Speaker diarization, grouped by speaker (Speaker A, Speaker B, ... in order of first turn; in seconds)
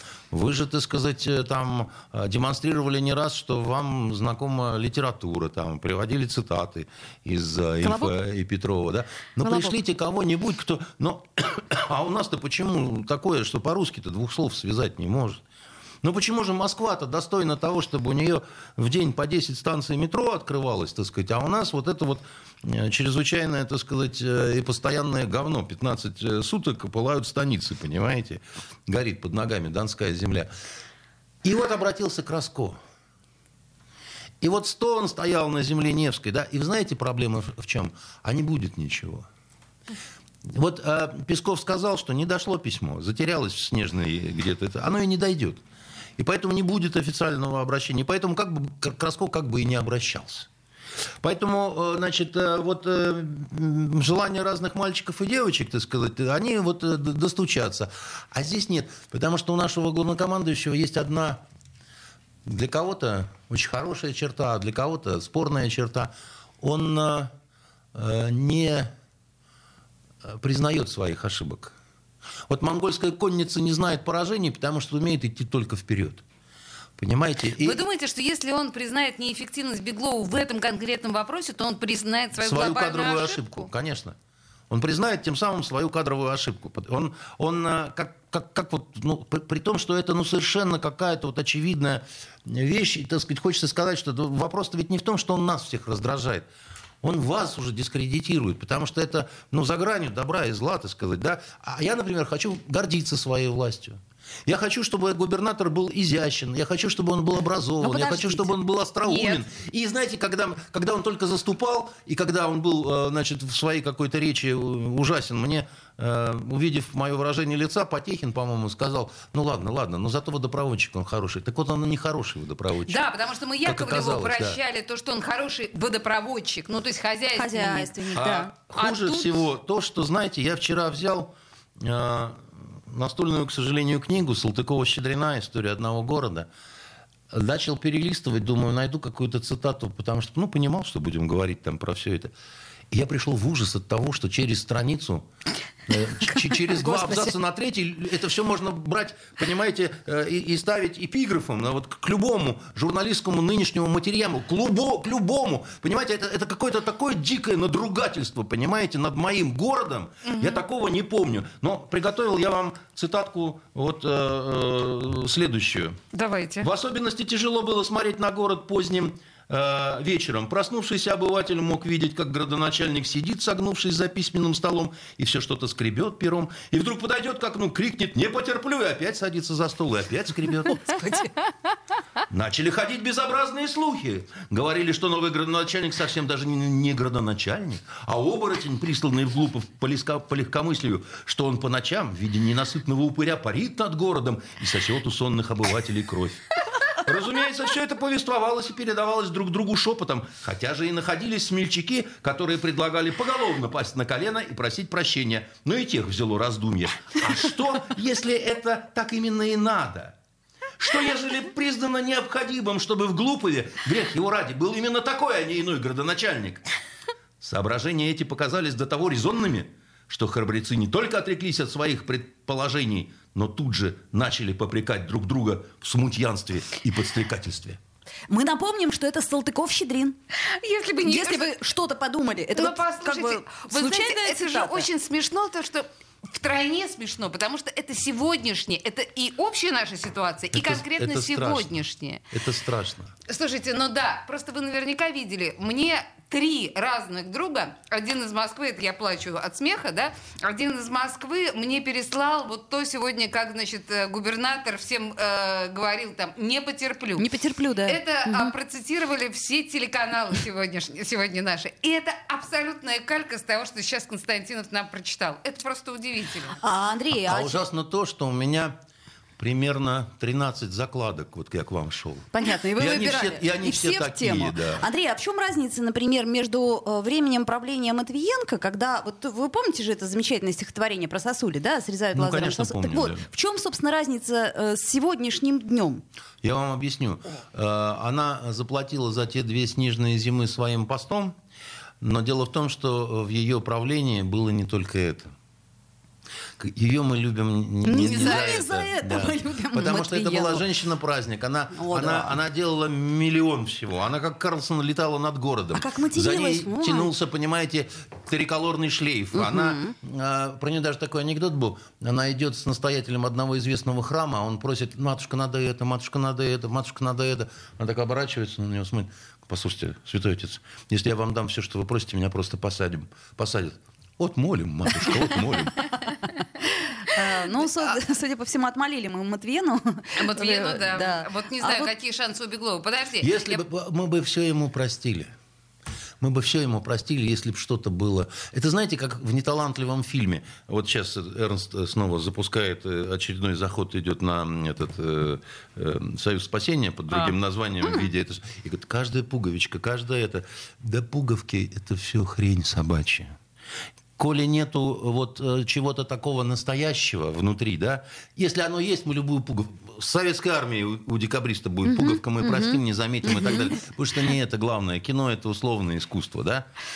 Speaker A: 0.3-15.4, 16.0-30.5, 31.4-32.8, 34.4-39.3, 40.4-45.6, 46.2-50.5, 51.2-61.4, 62.5-67.3, 67.9-68.9, 70.2-71.8, 72.5-76.2, 77.0-77.8, 82.4-84.2, 84.7-96.5, 97.0-123.0, 123.6-124.6, 128.1-136.5, 137.3-142.3, 142.9-145.3, 145.9-166.0, 166.6-181.0, 182.3-210.2, 210.8-216.6, 217.4-227.8, 240.5-241.8, 242.3-243.1, 267.1-268.8, 269.4-274.8, 282.1-283.3, 286.4-291.4, 292.0-295.3, 296.6-325.8, 333.2-335.3, 336.2-353.4, 354.2-366.7
Speaker B: 7.8-8.1, 9.4-9.8, 107.8-108.5, 127.3-128.5, 146.7-147.4, 228.3-230.2, 231.0-234.9, 257.2-258.5, 266.6-267.6, 272.3-286.0, 297.8-300.7, 301.7-302.4, 305.7-307.1, 309.3-309.9, 327.0-331.9, 361.9-362.8
Speaker C: 77.6-83.7, 109.1-109.4, 122.9-127.9, 128.7-129.4, 160.2-160.6, 166.1-166.7, 180.8-181.5, 230.4-231.5, 232.6-242.3, 243.3-257.3, 257.9-266.6, 330.2-333.6